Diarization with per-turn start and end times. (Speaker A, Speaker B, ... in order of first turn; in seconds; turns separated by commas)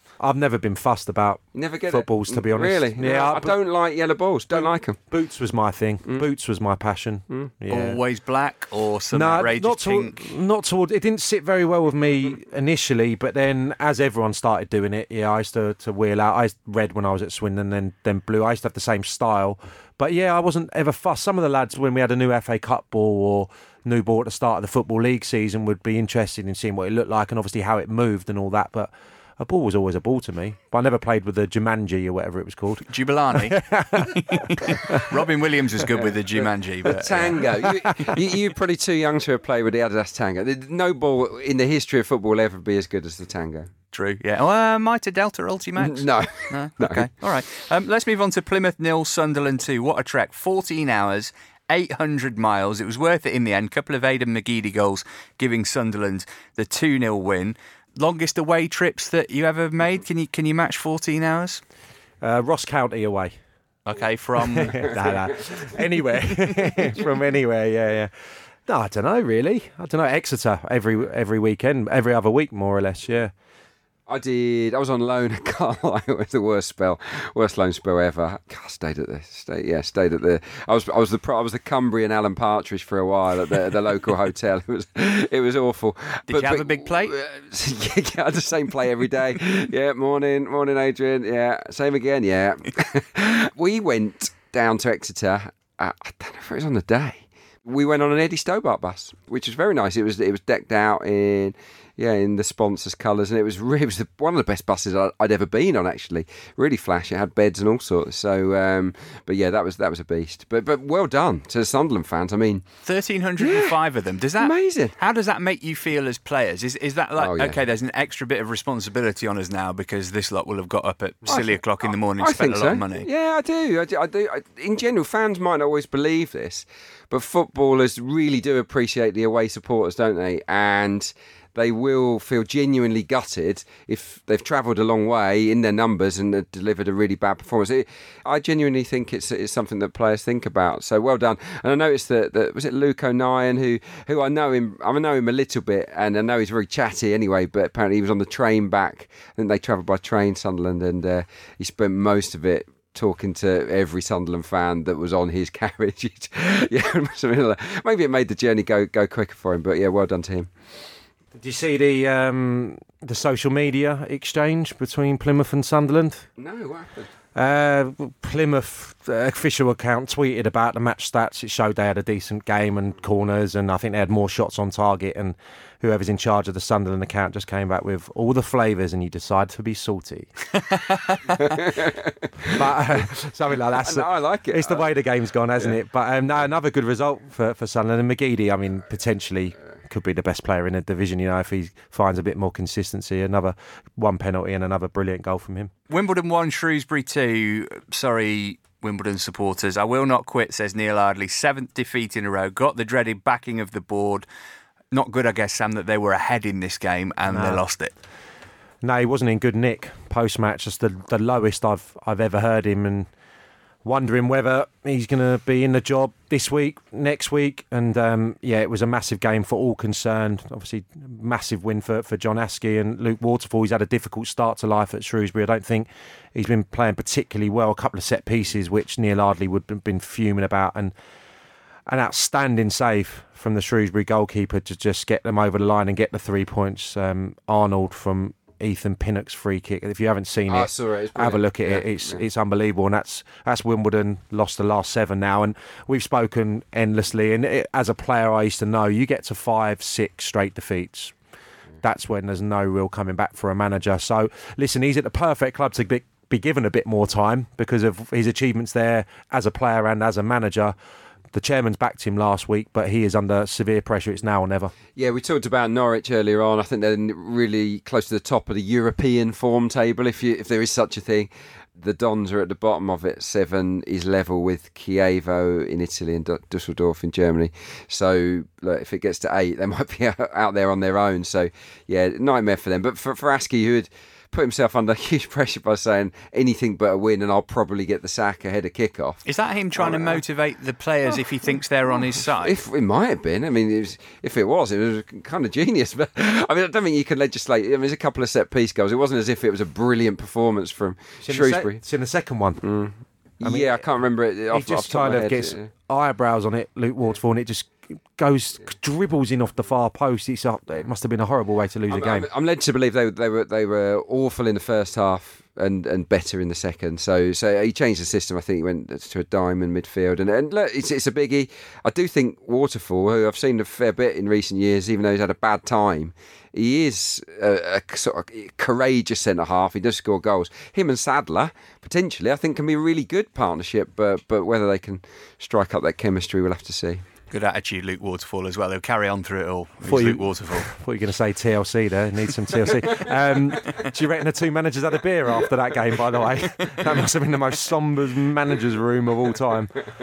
Speaker A: 0.2-3.5, Speaker B: 1.5-5.0, Speaker A: 4.5-8.0, Speaker C: 7.7-10.2, Speaker A: 9.1-35.0, Speaker C: 32.9-37.5, Speaker B: 36.9-43.7, Speaker C: 43.9-61.6, Speaker B: 45.8-47.1, Speaker A: 62.2-63.3, Speaker C: 63.9-65.0, Speaker A: 64.4-68.1, Speaker A: 68.7-73.3, Speaker B: 74.1-112.6, Speaker C: 86.3-87.1, Speaker C: 112.8-123.1, Speaker B: 113.4-113.7, Speaker B: 114.4-114.9, Speaker B: 117.2-117.6, Speaker B: 121.3-121.6, Speaker B: 122.2-160.5, Speaker A: 161.3-166.3, Speaker B: 166.4-167.1, Speaker A: 167.3-180.3, Speaker C: 180.7-181.2, Speaker B: 181.4-182.6, Speaker A: 182.5-195.7, Speaker B: 183.8-184.8, Speaker C: 195.9-204.2, Speaker C: 204.9-207.9, Speaker A: 207.3-207.6, Speaker A: 208.8-213.1, Speaker A: 213.8-230.9, Speaker A: 231.9-251.1, Speaker B: 240.5-242.2, Speaker A: 251.8-260.7, Speaker A: 261.3-264.7, Speaker B: 264.9-289.2, Speaker C: 289.2-292.6, Speaker B: 289.7-290.2, Speaker B: 292.3-301.8, Speaker A: 301.2-302.6, Speaker B: 302.6-305.7, Speaker A: 303.4-303.9, Speaker A: 304.5-312.3, Speaker B: 311.9-337.0, Speaker C: 337.3-340.7, Speaker A: 339.8-349.7